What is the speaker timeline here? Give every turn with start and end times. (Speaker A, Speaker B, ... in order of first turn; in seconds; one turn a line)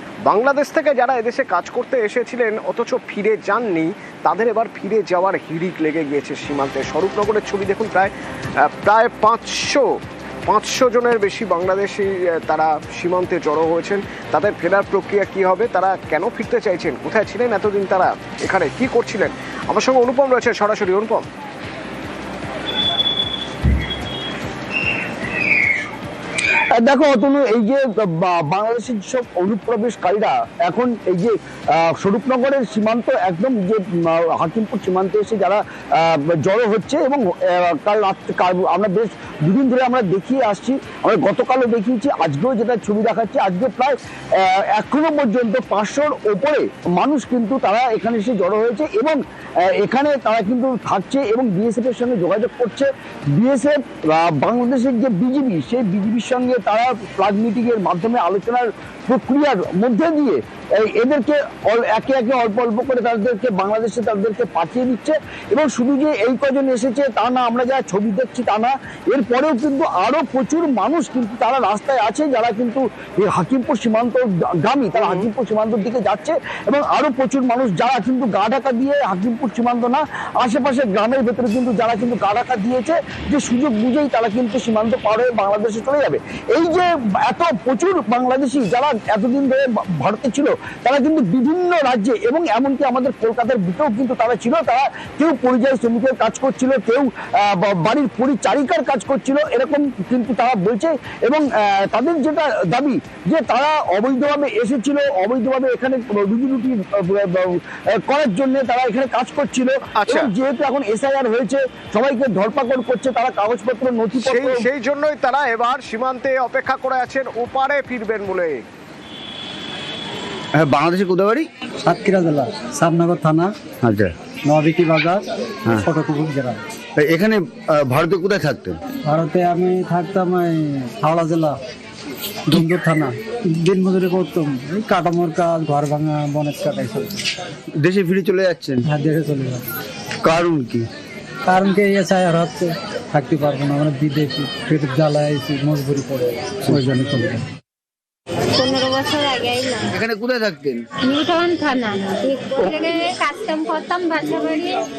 Speaker A: 0.3-21.2
Speaker B: 26.7-114.7
Speaker A: 75.0-75.3
Speaker A: 110.0-110.3
Speaker A: 114.2-118.6
Speaker C: 120.6-121.5
Speaker D: 121.8-123.5
Speaker C: 123.8-124.1
Speaker D: 124.5-126.6
Speaker C: 127.0-128.8
Speaker D: 129.0-131.6
Speaker D: 132.4-137.2
Speaker C: 137.8-138.8
Speaker D: 138.8-139.7
Speaker C: 140.2-140.9
Speaker D: 141.4-147.4
Speaker E: 148.5-149.9
Speaker C: 149.9-150.8
Speaker E: 151.0-154.8